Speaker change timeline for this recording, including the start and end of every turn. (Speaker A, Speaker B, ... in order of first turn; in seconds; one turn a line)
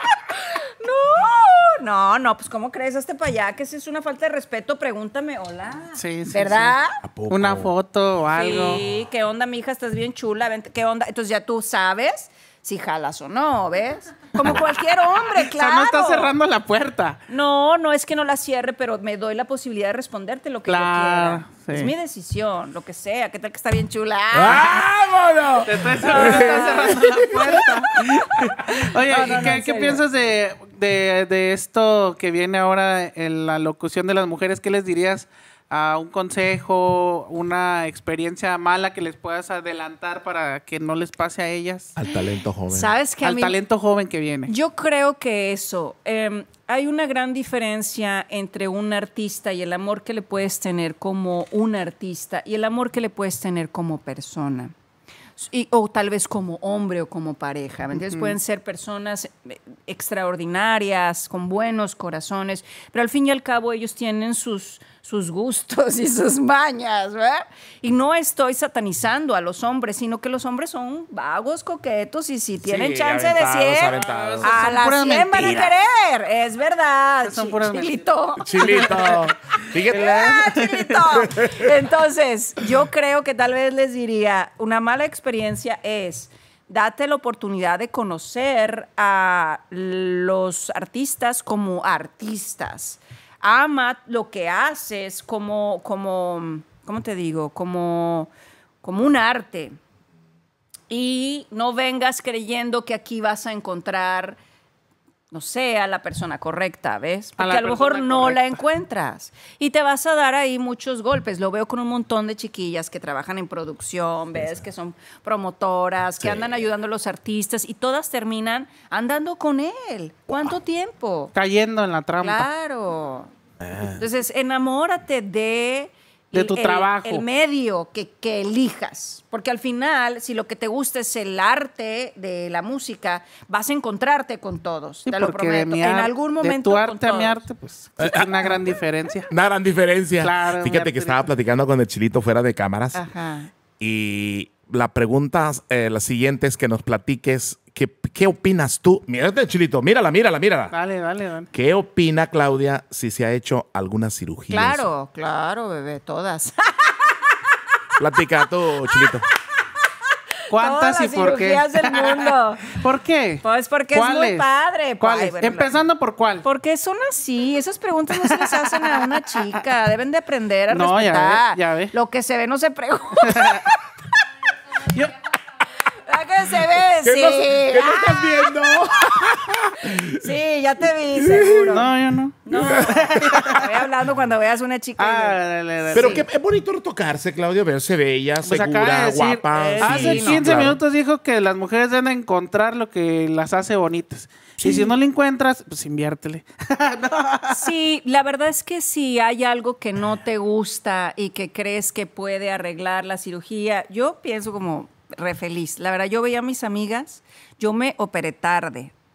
Speaker A: 0.3-7.0
Speaker B: 6.0-6.8
Speaker C: 7.0-7.7
Speaker B: 7.3-8.8
Speaker A: 8.3-16.4
Speaker B: 14.4-14.6
Speaker B: 15.2-17.2
Speaker A: 17.3-24.9
Speaker B: 20.7-21.9
Speaker C: 24.3-27.7
Speaker B: 25.6-42.0
Speaker A: 26.1-27.0
Speaker A: 28.4-30.0
Speaker C: 42.0-42.9
Speaker A: 42.7-43.6
Speaker B: 43.2-44.5
Speaker A: 44.5-54.7
Speaker A: 55.4-79.1
Speaker B: 58.0-58.4
Speaker C: 72.6-74.5
Speaker B: 73.9-75.8
Speaker B: 77.2-79.2
Speaker C: 78.4-80.1
Speaker B: 79.8-81.3
Speaker A: 79.9-98.3
Speaker C: 81.2-81.7
Speaker A: 98.8-99.8
Speaker A: 100.9-104.4
Speaker A: 105.3-121.3
Speaker B: 107.4-108.6
Speaker B: 121.3-122.5
Speaker A: 122.2-123.3
Speaker C: 123.6-124.0
Speaker A: 123.9-137.4
Speaker B: 126.3-127.2
Speaker B: 135.1-139.3
Speaker C: 138.0-138.4
Speaker C: 139.3-143.0
Speaker B: 140.2-141.3
Speaker A: 142.9-143.5
Speaker C: 143.8-150.7
Speaker B: 150.7-151.5
Speaker C: 151.5-154.9
Speaker A: 154.5-157.3
Speaker C: 158.0-159.2
Speaker A: 158.4-159.1
Speaker A: 160.5-162.8
Speaker B: 160.5-164.5
Speaker A: 163.4-165.8
Speaker B: 165.0-166.4
Speaker A: 166.4-173.8
Speaker B: 168.1-169.6
Speaker B: 170.7-171.9
Speaker B: 173.2-173.7
Speaker A: 176.0-186.3
Speaker C: 177.0-180.3
Speaker C: 181.2-181.6
Speaker B: 181.7-183.9
Speaker C: 182.6-183.0
Speaker B: 185.0-186.2
Speaker C: 185.9-190.8
Speaker B: 188.4-197.7
Speaker A: 189.5-190.7
Speaker A: 194.6-194.9
Speaker A: 197.5-208.9